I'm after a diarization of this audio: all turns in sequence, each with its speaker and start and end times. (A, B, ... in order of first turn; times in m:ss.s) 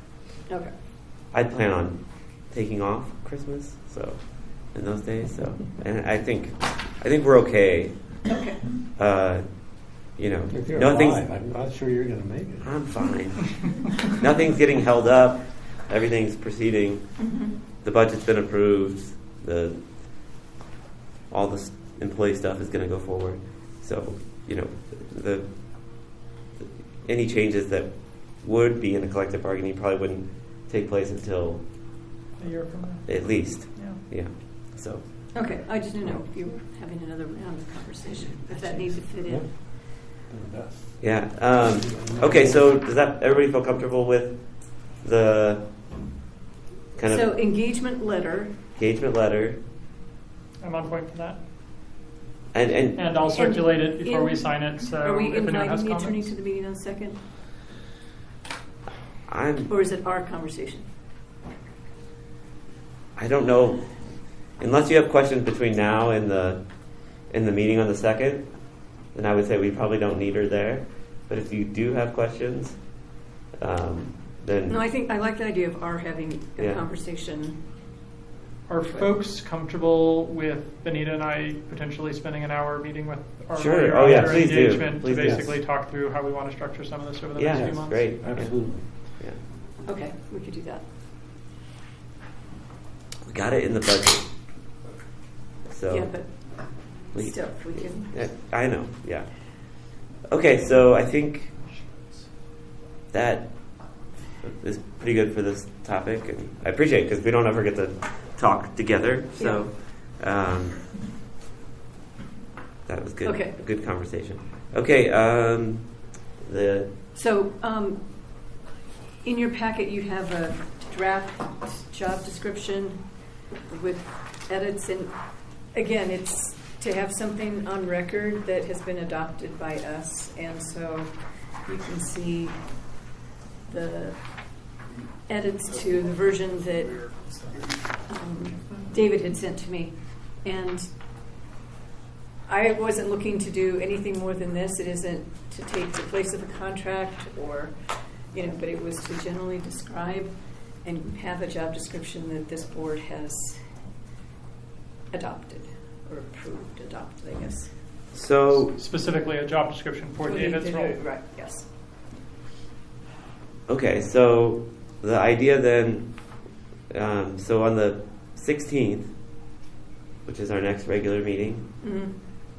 0:01.3-0:08.2 A
0:08.3-0:08.6 B
0:09.0-0:11.2 A
0:10.5-0:13.2 C
0:12.6-0:19.8 A
0:17.2-0:17.5 B
0:21.3-0:31.6 A
0:32.4-0:34.0 D
0:33.0-0:35.0 A
0:35.3-0:39.5 B
0:38.5-0:41.1 C
0:41.0-0:45.6 A
0:41.6-0:42.7 C
0:47.0-0:47.3 A
0:47.0-0:48.5 B
0:48.8-0:49.6 A
0:50.6-0:51.4 D
0:52.5-0:53.1 A
0:52.9-0:56.3 D
0:53.3-0:57.2 B
0:59.2-0:59.7 A
0:59.7-1:00.8 B
1:03.2-1:03.9 A
1:04.6-1:06.6 A
1:07.3-1:08.5 A
1:09.1-1:12.8 A
1:13.6-1:14.8 A
1:14.7-1:17.6 B
1:16.6-1:16.8 A
1:18.7-1:28.2 D
1:23.5-1:25.7 A
1:25.2-1:25.5 C
1:27.3-1:29.4 A
1:27.5-1:28.9 C
1:29.8-1:30.8 B
1:33.2-1:34.2 A
1:35.7-1:36.1 A
1:35.9-1:36.6 B
1:37.1-1:38.1 B
1:37.1-1:39.3 A
1:40.3-1:41.5 A
1:43.1-1:43.5 A
1:44.4-1:50.9 A
1:49.4-1:49.6 B
1:52.8-1:55.9 A
1:53.2-1:53.6 B
1:56.4-1:56.9 A
1:57.1-1:58.0 B
1:59.2-2:03.0 B
2:03.7-2:05.1 B
2:05.7-2:11.1 B
2:11.6-2:12.6 B
2:13.7-2:14.2 B
2:15.3-2:17.2 B
2:18.0-2:20.8 B
2:22.5-2:27.7 B
2:28.3-2:30.3 B
2:30.8-2:33.6 B
2:35.1-2:37.7 B
2:38.1-2:38.8 A
2:38.6-2:41.0 D
2:40.2-2:41.7 B
2:43.7-2:46.1 A
2:46.9-2:49.1 A
2:50.2-2:51.6 A
2:51.8-2:52.1 B